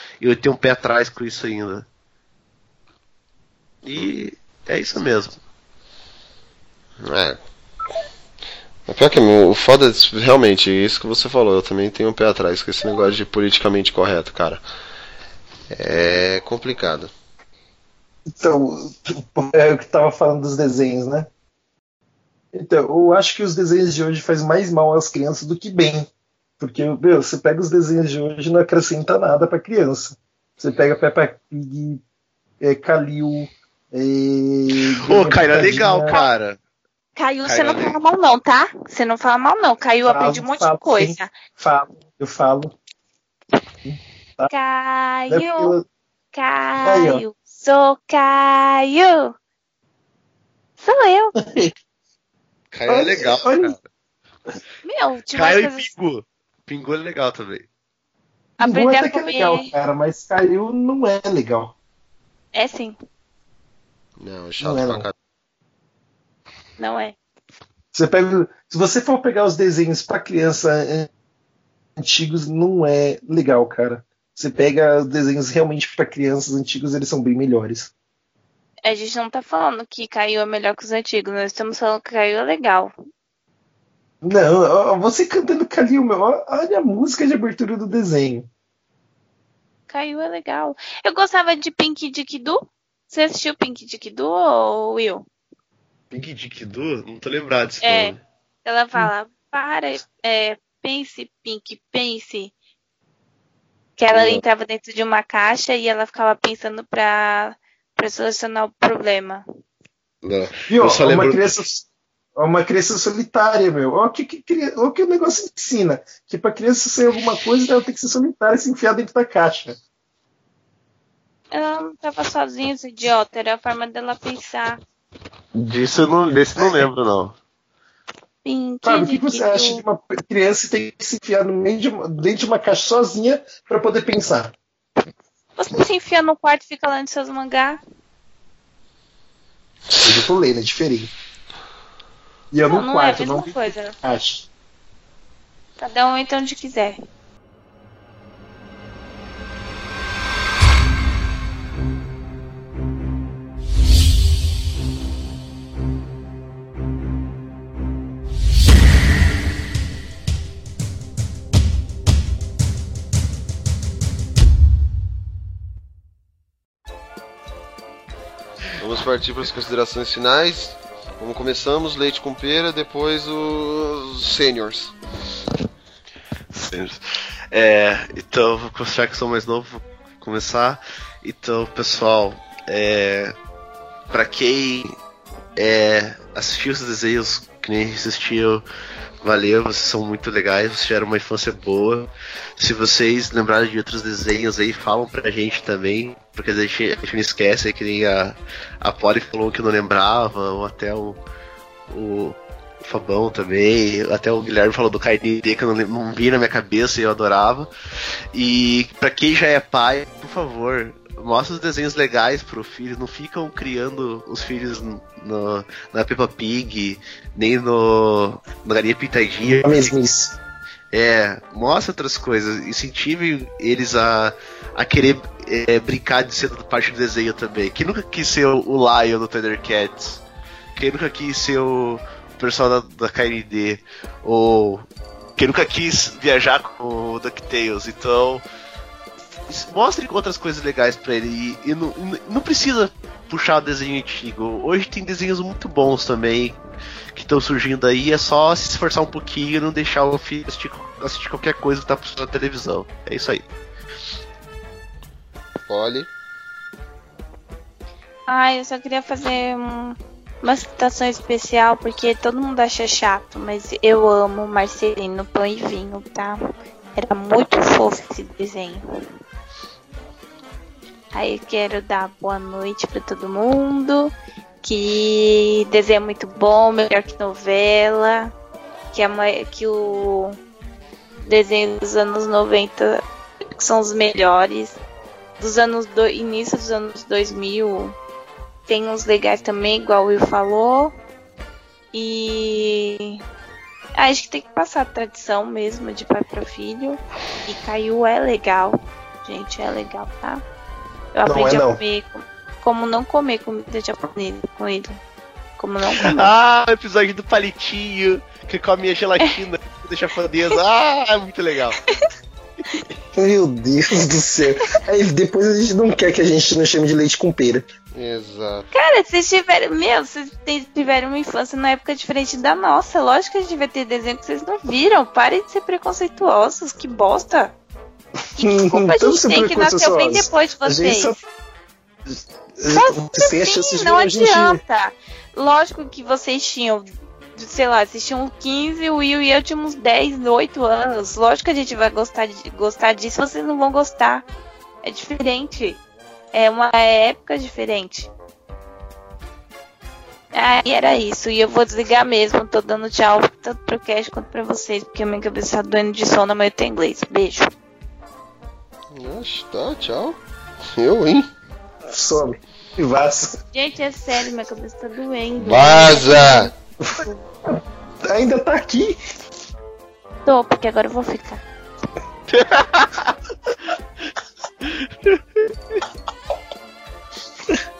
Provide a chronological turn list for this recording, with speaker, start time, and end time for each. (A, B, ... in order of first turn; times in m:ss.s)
0:00.2-0:01.9 A
0:03.8-0:05.4 A
0:07.0-0:07.4 B
0:08.9-0:14.6 B
0:15.7-0:17.1 B
0:18.3-0:21.3 C
0:22.5-0:26.1 C
0:26.6-0:32.0 C
0:32.6-0:36.3 C
0:35.0-0:36.6 A
0:37.2-0:41.3 D
0:37.4-0:38.0 A
0:40.1-0:42.8 C
0:43.8-0:44.5 C
0:44.5-0:45.7 D
0:45.3-0:45.8 C
0:46.3-0:49.3 D
0:46.8-0:47.2 C
0:50.8-0:51.3 D
0:51.4-0:51.7 C
0:52.7-0:53.8 A
0:52.9-0:53.8 C
0:54.9-0:55.9 D
0:55.3-0:57.7 A
0:58.6-1:01.7 C
0:58.6-0:59.7 D
1:02.6-1:03.0 D
1:04.2-1:05.1 B
1:04.6-1:05.0 C
1:06.8-1:07.2 D
1:07.9-1:11.1 C
1:12.0-1:17.9 C
1:18.8-1:22.9 D
1:24.2-1:28.5 C
1:29.9-1:35.2 D
1:36.1-1:38.2 A
1:37.8-1:42.5 D
1:44.0-1:49.4 D
1:44.1-1:44.4 B
1:50.2-1:50.6 B
1:50.7-1:51.8 C
1:50.8-1:51.5 A
1:52.4-1:59.8 C
2:01.5-2:04.8 D
2:05.6-2:07.3 A
2:08.4-2:09.8 D
2:08.8-2:14.6 C
2:15.6-2:17.8 D
2:20.0-2:21.1 C
2:22.5-2:24.5 C
2:22.7-2:24.0 D
2:25.8-2:27.0 D
2:48.8-2:54.9 B
2:56.6-2:57.0 A
2:57.5-3:03.4 A
3:04.1-3:05.0 A
3:05.6-3:08.6 A
3:09.2-3:21.2 A
3:21.9-3:27.7 A
3:28.3-3:39.9 A
3:39.5-3:40.4 C
3:40.9-3:50.2 A
3:50.8-3:54.9 A
3:55.4-3:58.4 A
3:59.5-4:06.6 A
4:07.2-4:13.4 A
4:15.7-4:16.1 B
4:18.3-4:26.4 D
4:27.0-4:28.8 D
4:31.1-4:38.3 D
4:38.9-4:40.4 D
4:41.3-4:43.0 D
4:43.6-4:44.8 D
4:45.4-4:48.0 D
4:48.7-4:50.9 D
4:51.9-4:53.2 D
4:54.0-5:00.4 D
5:01.1-5:05.0 D
5:01.2-5:01.8 C
5:05.6-5:06.3 D
5:06.0-5:11.8 A
5:13.2-5:17.6 C
5:17.9-5:18.7 B
5:18.7-5:27.5 D
5:28.4-5:31.2 D
5:28.4-5:31.2 C
5:32.1-5:34.6 C
5:32.7-5:44.2 D
5:44.8-5:45.8 D
5:46.3-5:48.1 D
5:50.3-5:57.5 D
5:58.9-6:00.2 B
6:00.8-6:01.3 B
6:01.8-6:03.4 C
6:03.5-6:06.5 D
6:05.4-6:06.5 B
6:06.8-6:09.0 C
6:10.2-6:11.4 D
6:12.3-6:13.0 A
6:14.7-6:15.2 A